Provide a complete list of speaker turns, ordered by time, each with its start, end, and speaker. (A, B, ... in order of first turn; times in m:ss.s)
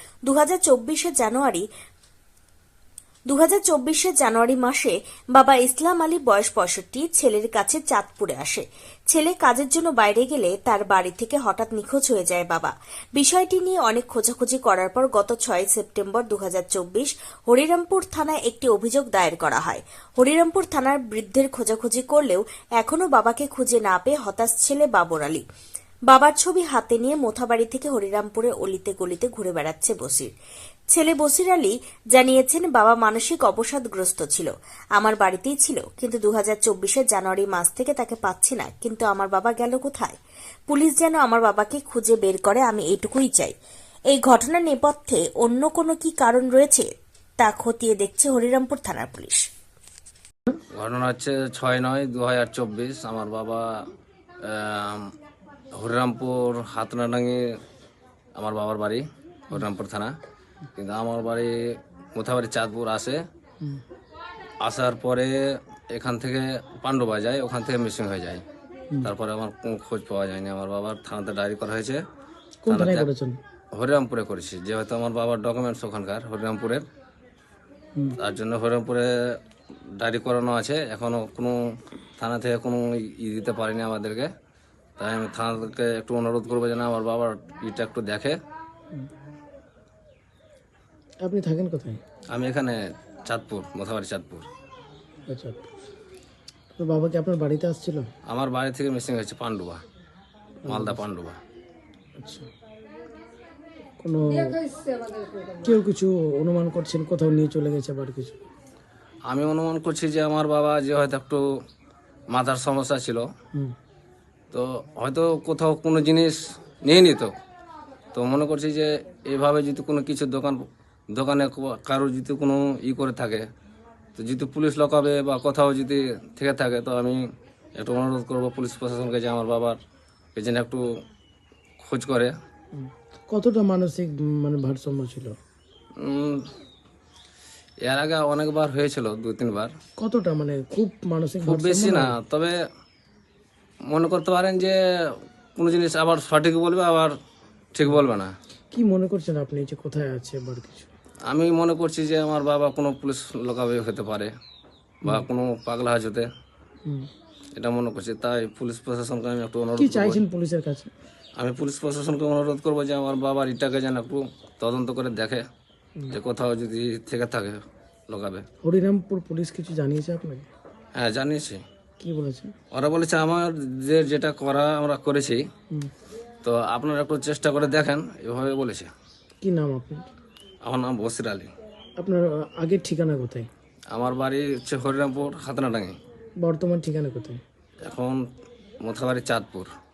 0:00.3-0:01.6 A
0:03.3-0:25.4 A
0:26.1-0:30.3 A
0:30.9-0:40.2 A
0:40.7-0:43.5 A
0:44.1-0:46.9 A
0:47.4-0:49.4 A
0:50.7-0:53.6 B
0:54.4-0:55.0 B
0:55.8-0:57.4 B
0:58.4-1:00.1 B
1:00.8-1:01.6 B
1:02.1-1:03.2 B
1:04.6-1:05.4 B
1:05.9-1:08.4 B
1:09.0-1:12.0 B
1:12.6-1:13.4 C
1:12.7-1:13.1 B
1:13.7-1:16.8 B
1:18.2-1:19.1 B
1:20.0-1:21.6 B
1:22.2-1:24.3 B
1:25.0-1:28.4 B
1:31.2-1:32.0 C
1:32.3-1:32.8 B
1:33.3-1:34.5 B
1:35.3-1:35.7 C
1:36.8-1:38.1 C
1:38.3-1:39.8 B
1:40.6-1:41.0 C
1:40.6-1:41.4 B
1:42.2-1:42.5 C
1:44.0-1:44.6 C
1:45.6-1:48.4 C
1:49.3-1:51.4 B
1:52.3-1:53.3 B
1:54.5-1:57.3 B
1:58.1-2:00.6 B
2:01.1-2:03.4 B
2:04.2-2:07.2 B
2:07.8-2:09.8 B
2:10.3-2:10.8 B
2:11.8-2:12.3 B
2:12.7-2:15.3 C
2:16.0-2:16.4 B
2:17.8-2:19.7 B
2:20.0-2:22.1 C
2:21.4-2:22.6 B
2:23.9-2:24.8 B
2:25.6-2:27.1 B
2:27.7-2:28.3 B
2:28.7-2:30.9 C
2:31.3-2:34.3 B
2:35.0-2:36.3 B
2:37.6-2:40.2 B
2:39.8-2:40.9 C
2:41.4-2:45.4 B
2:46.1-2:48.4 B
2:48.6-2:50.5 C
2:50.9-2:51.6 B
2:52.0-2:52.5 C
2:52.7-2:55.4 B
2:56.4-2:58.9 B
2:59.4-3:00.0 C
3:00.6-3:01.5 B
3:02.0-3:03.5 C
3:03.9-3:06.0 B
3:06.4-3:07.4 C
3:07.8-3:08.2 B
3:08.8-3:09.7 B